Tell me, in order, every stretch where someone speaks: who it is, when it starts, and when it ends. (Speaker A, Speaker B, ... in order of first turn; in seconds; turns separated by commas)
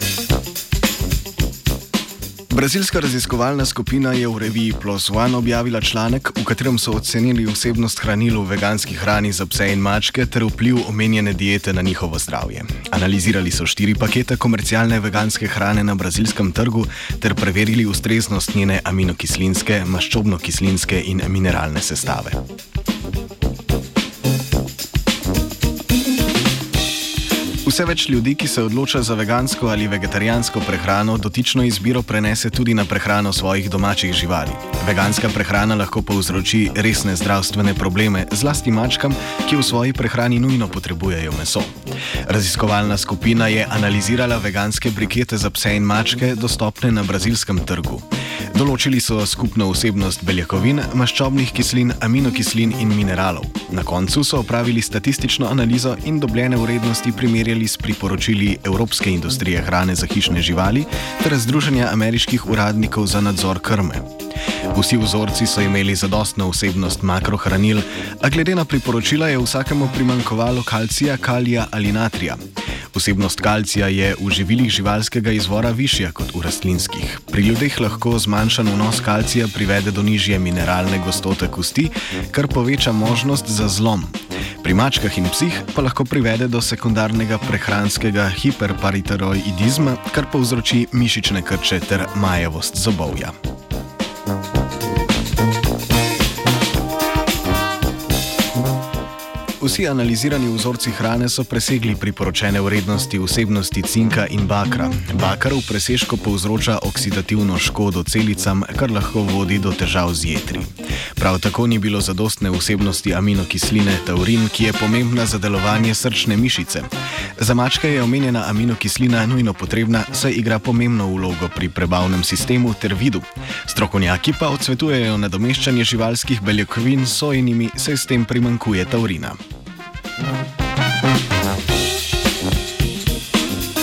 Speaker A: 2.5-22.4, Speaker A: 27.6-41.7, Speaker A: 42.3-64.1, Speaker A: 64.7-93.3, Speaker A: 99.6-129.4